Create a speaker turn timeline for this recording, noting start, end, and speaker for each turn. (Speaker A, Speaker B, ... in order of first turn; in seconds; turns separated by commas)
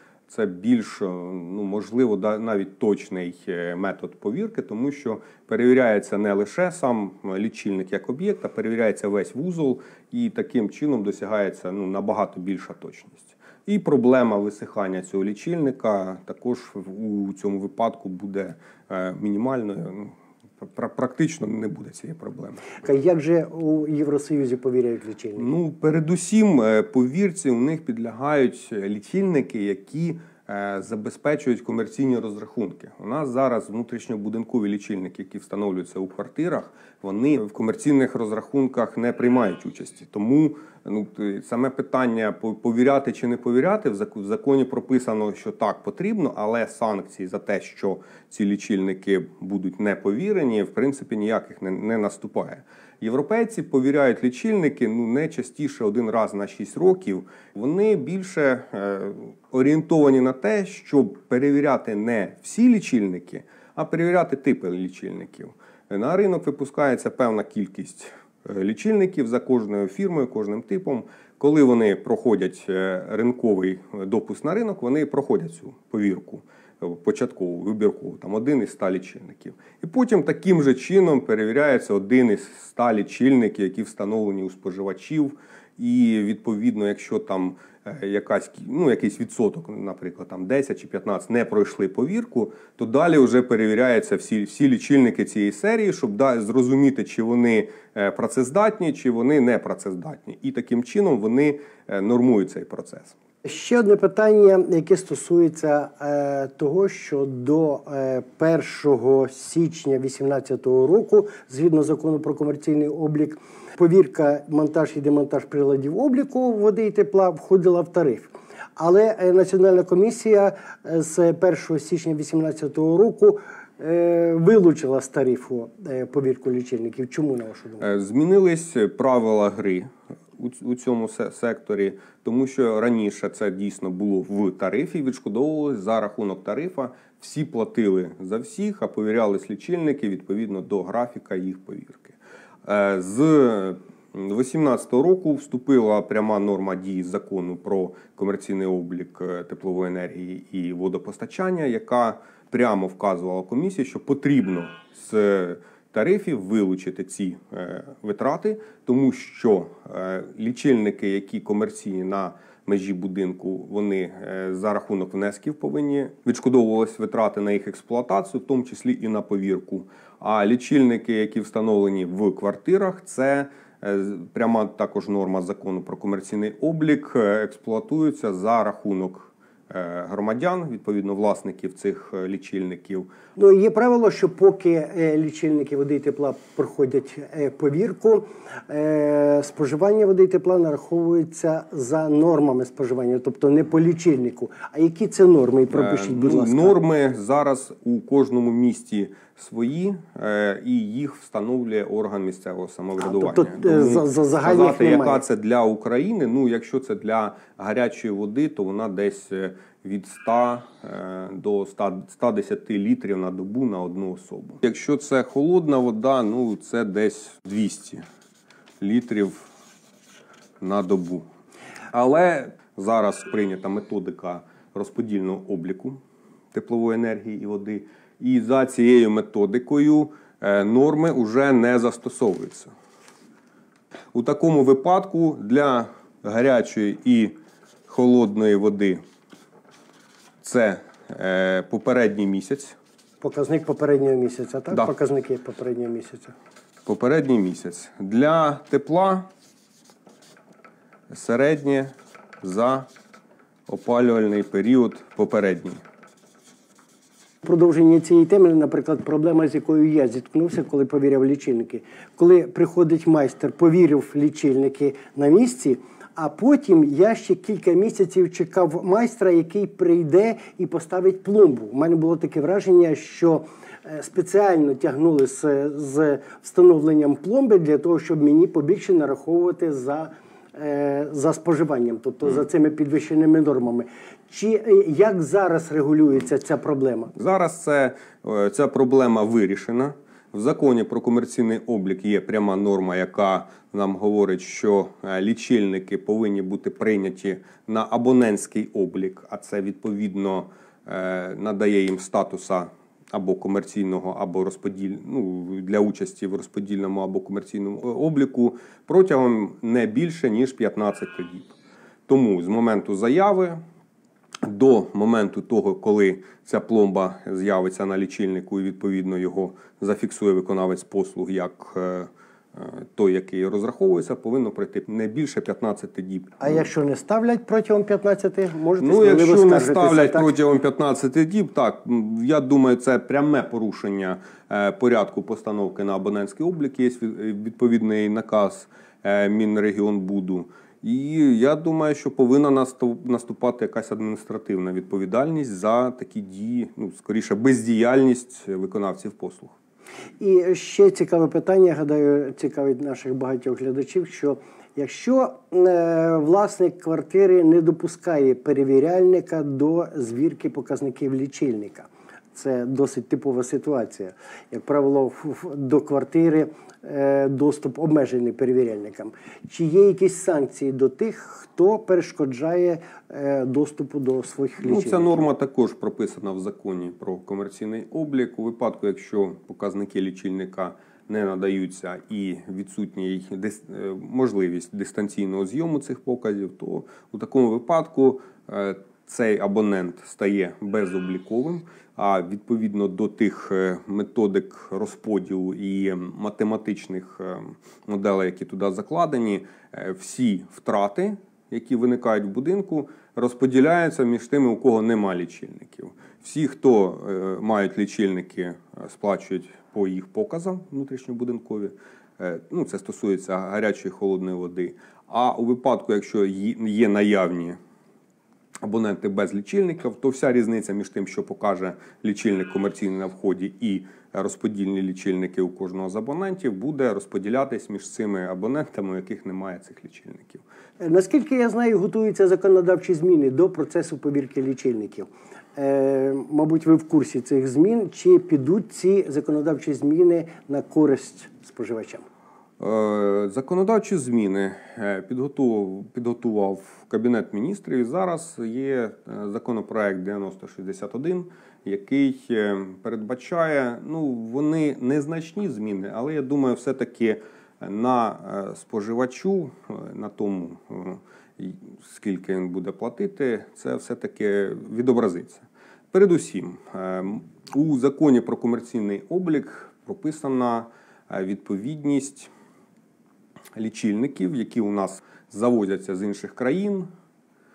Speaker A: 0.3-22.8, Speaker B: 22.8-25.5, Speaker A: 25.4-103.2, Speaker B: 103.4-127.8, Speaker A: 127.8-183.1, Speaker B: 183.3-196.8, Speaker A: 195.7-218.0, Speaker B: 203.0-205.2, Speaker A: 218.8-219.5, Speaker A: 220.6-221.2, Speaker A: 221.9-226.0, Speaker A: 226.5-232.7, Speaker A: 234.1-237.3, Speaker A: 237.9-239.0, Speaker A: 240.4-242.7, Speaker B: 243.2-246.3, Speaker A: 246.8-249.3, Speaker A: 251.1-252.9, Speaker A: 253.7-255.8, Speaker B: 257.4-287.1, Speaker A: 287.1-311.5, Speaker A: 312.1-313.6, Speaker A: 314.4-326.6, Speaker B: 326.4-330.3, Speaker A: 328.8-349.5, Speaker B: 350.2-375.2, Speaker A: 374.6-417.6, Speaker A: 418.6-430.4, Speaker B: 430.8-442.1, Speaker A: 442.6-472.3, Speaker A: 473.6-476.9